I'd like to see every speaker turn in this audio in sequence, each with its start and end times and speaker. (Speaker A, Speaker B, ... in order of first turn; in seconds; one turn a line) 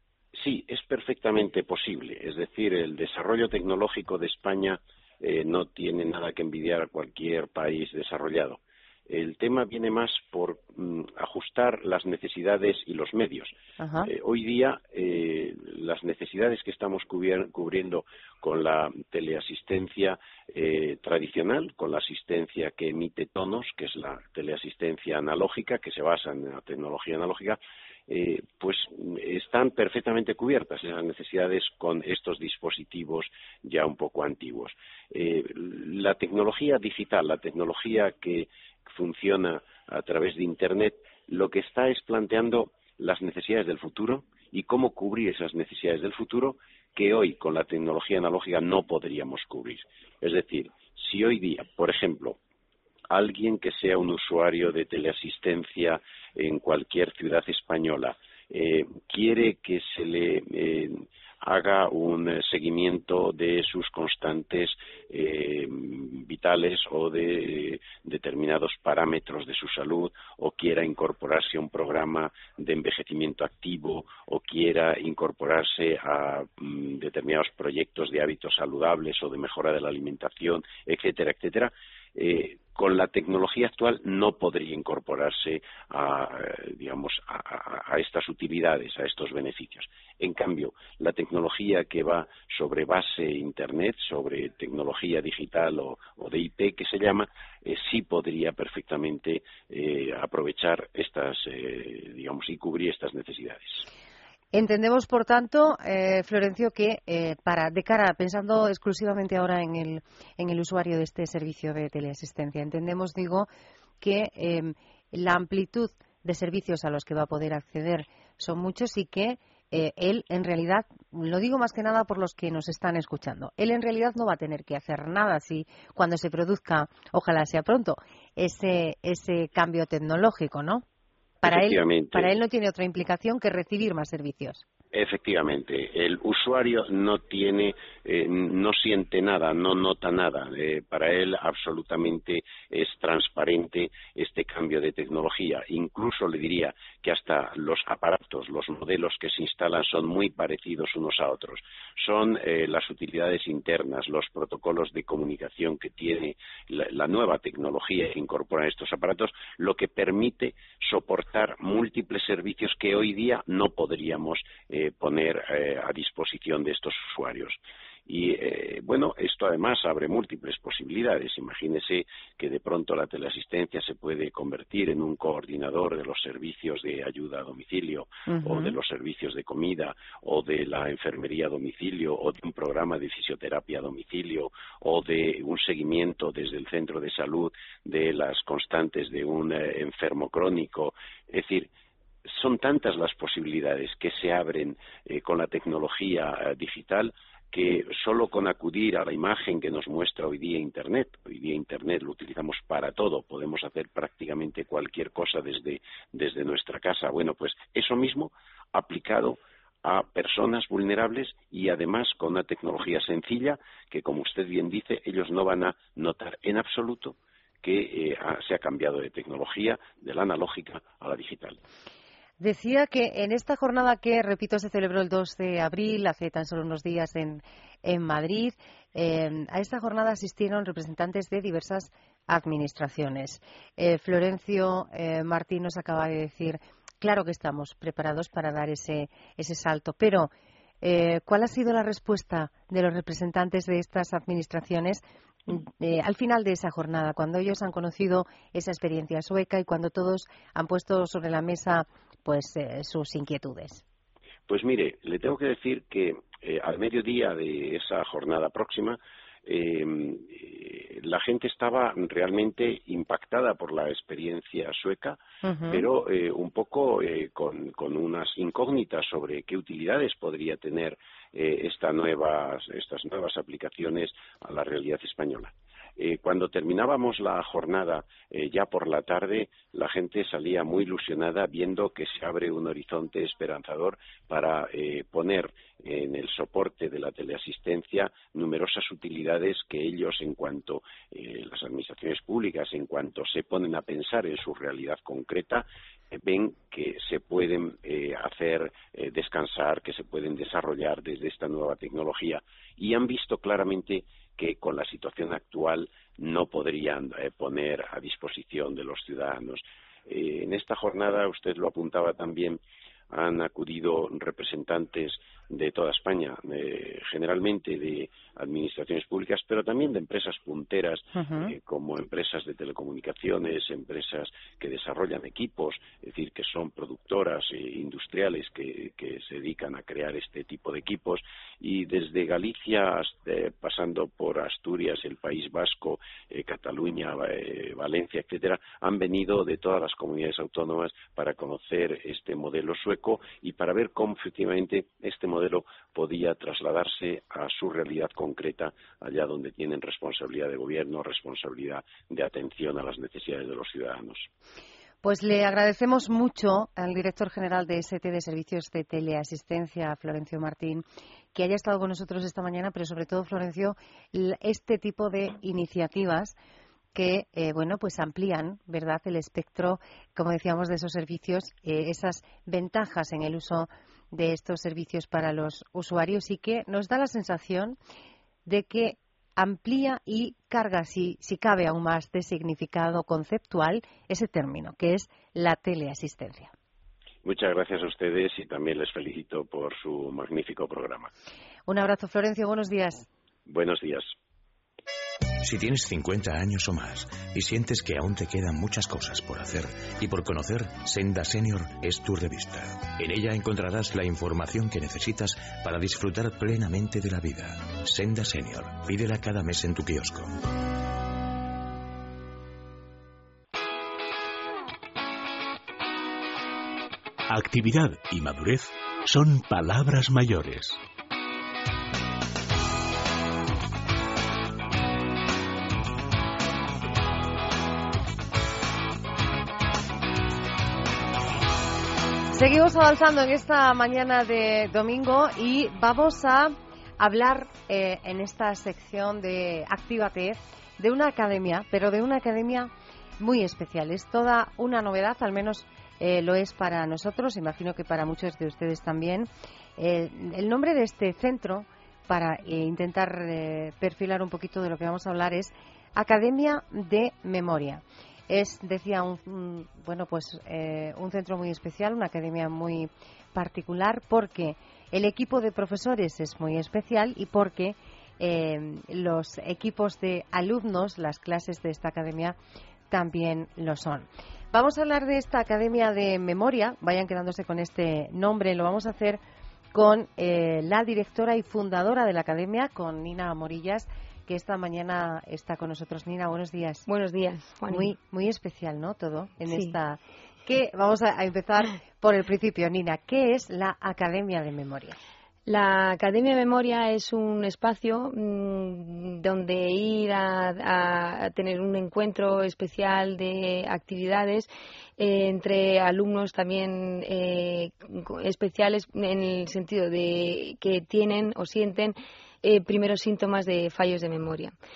Speaker A: 0.3-52.4
Speaker B: 13.8-14.1
Speaker A: 53.1-103.8
Speaker B: 104.5-113.5
Speaker B: 114.0-130.8
Speaker B: 131.4-134.6
Speaker A: 131.4-132.3
Speaker A: 134.9-191.7
Speaker B: 178.3-178.7
Speaker A: 192.2-221.6
Speaker B: 222.4-240.3
Speaker B: 240.8-253.8
Speaker A: 254.5-312.6
Speaker B: 265.4-265.9
Speaker A: 313.1-354.3
Speaker B: 321.1-321.5
Speaker B: 355.0-366.4
Speaker B: 366.9-377.8
Speaker B: 378.5-386.5
Speaker A: 387.2-391.1
Speaker B: 391.7-393.1
Speaker A: 393.5-394.1
Speaker C: 395.4-410.4
Speaker D: 417.3-420.8
Speaker B: 432.3-472.4
Speaker B: 472.9-479.2
Speaker B: 479.7-486.9
Speaker E: 486.9-487.9
Speaker B: 487.7-495.0
Speaker E: 489.5-489.7
Speaker E: 495.5-514.5